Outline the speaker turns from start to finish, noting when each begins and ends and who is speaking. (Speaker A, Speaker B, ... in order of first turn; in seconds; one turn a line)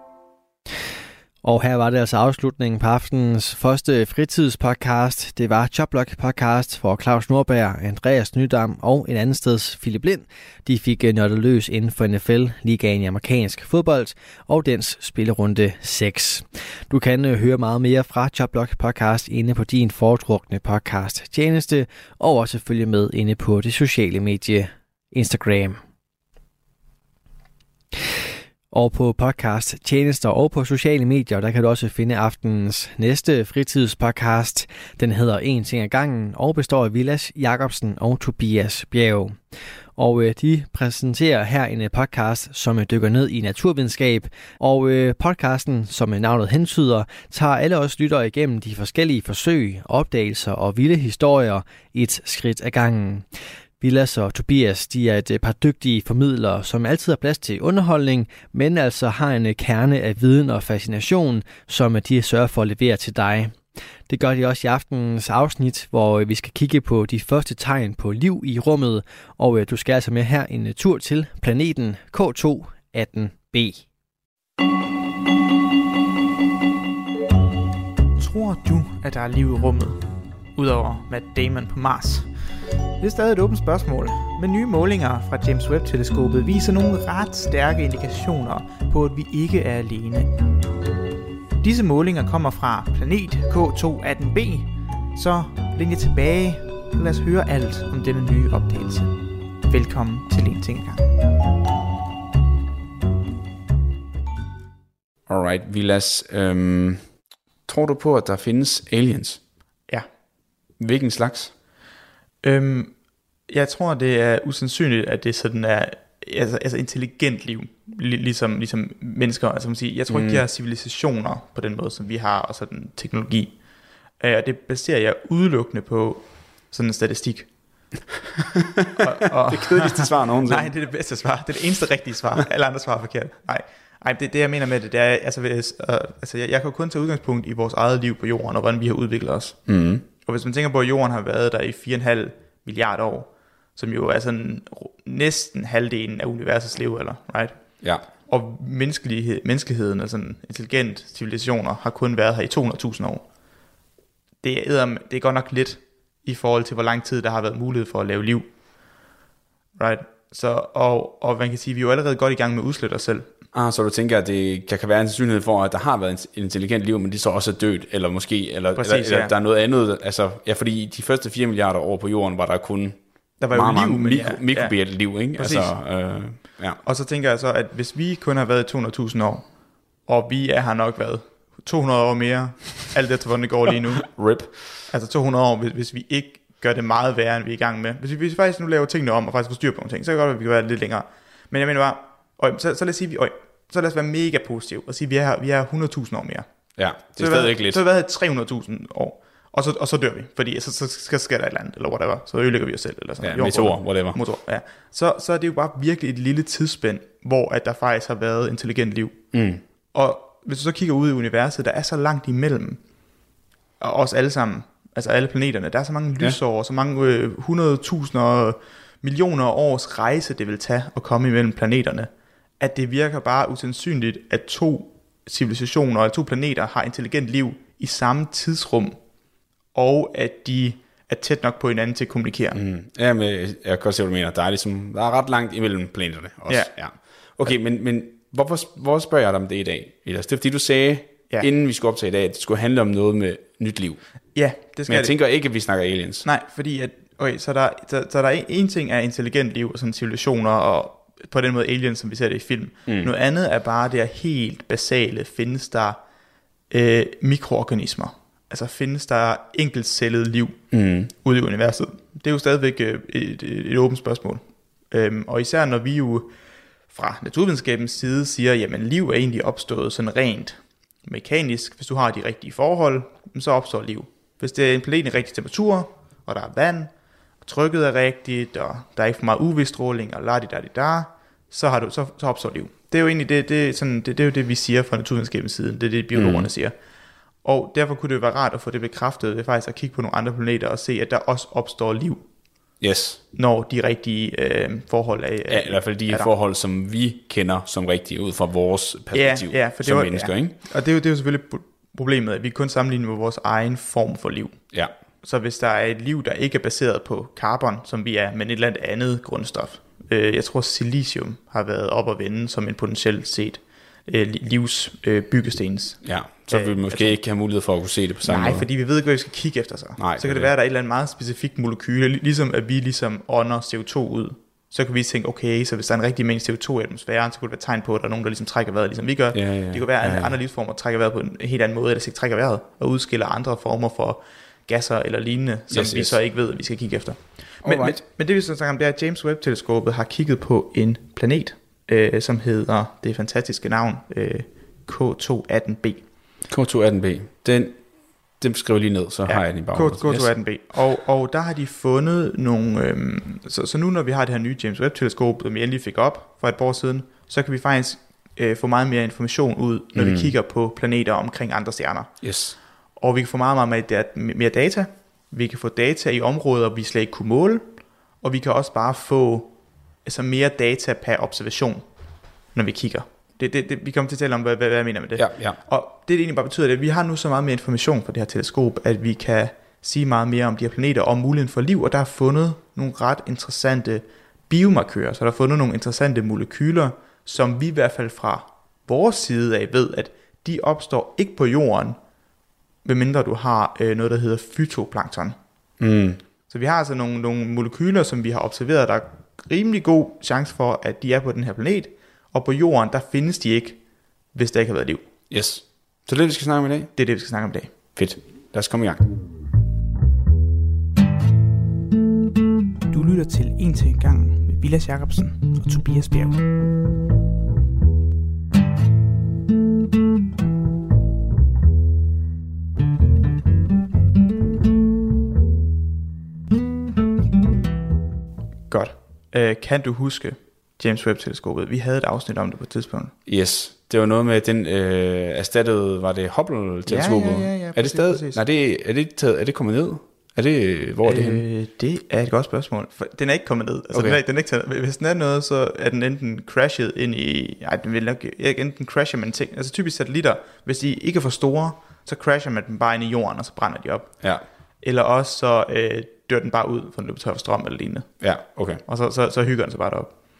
Speaker A: 1.4-25.8
Speaker A: 28.7-39.4
Speaker A: 40.0-53.3
Speaker A: 53.8-73.8
Speaker B: 78.2-82.3
Speaker B: 83.0-90.3
Speaker B: 91.6-99.1
Speaker B: 99.7-101.1
Speaker C: 105.3-107.1
Speaker C: 107.7-109.4
Speaker C: 110.8-111.5
Speaker B: 112.4-113.0
Speaker B: 113.5-123.5
Speaker C: 120.1-120.4
Speaker B: 124.2-127.5
Speaker C: 128.5-130.7
Speaker B: 129.0-139.7
Speaker C: 139.7-140.0
Speaker B: 140.2-153.2
Speaker C: 147.8-148.1
Speaker B: 154.4-158.5
Speaker B: 159.8-163.3
Speaker C: 163.5-176.8
Speaker B: 168.8-169.3
Speaker B: 173.4-179.5
Speaker B: 180.1-184.3
Speaker C: 184.1-184.8
Speaker B: 184.9-196.5
Speaker C: 196.8-197.8
Speaker B: 197.0-209.3
Speaker C: 203.2-204.2
Speaker C: 209.3-209.6
Speaker B: 209.9-212.8
Speaker B: 213.8-229.0
Speaker B: 229.7-232.6
Speaker C: 232.5-244.0
Speaker B: 236.5-237.5
Speaker B: 244.3-245.2
Speaker C: 244.9-246.2
Speaker B: 246.2-256.0
Speaker B: 256.7-266.3
Speaker C: 260.7-261.1
Speaker B: 266.9-276.9
Speaker B: 277.4-286.7
Speaker C: 286.1-286.5
Speaker B: 287.4-292.2
Speaker C: 292.8-293.2
Speaker B: 293.3-296.3
Speaker C: 295.5-300.5
Speaker B: 299.1-304.7
Speaker B: 305.2-317.1
Speaker C: 316.0-318.6
Speaker B: 318.2-346.0
Speaker C: 320.0-320.5
Speaker C: 329.3-330.4
Speaker C: 335.7-336.2
Speaker C: 337.6-338.0
Speaker C: 346.5-347.8
Speaker C: 348.4-350.3
Speaker B: 349.3-362.2
Speaker C: 359.9-360.3
Speaker C: 362.2-362.5
Speaker B: 363.0-367.7
Speaker B: 368.2-369.5
Speaker B: 370.0-371.9
Speaker B: 372.5-392.0
Speaker C: 375.1-375.6
Speaker B: 392.8-395.4
Speaker C: 395.8-396.2
Speaker B: 396.5-403.8
Speaker B: 404.3-405.1
Speaker C: 405.3-406.9
Speaker B: 406.9-407.8
Speaker C: 407.9-409.1
Speaker B: 412.9-416.4
Speaker B: 428.7-433.1
Speaker C: 433.2-441.4
Speaker B: 436.9-438.4
Speaker B: 441.0-454.3
Speaker C: 443.9-444.2
Speaker B: 454.8-460.1
Speaker C: 458.2-458.8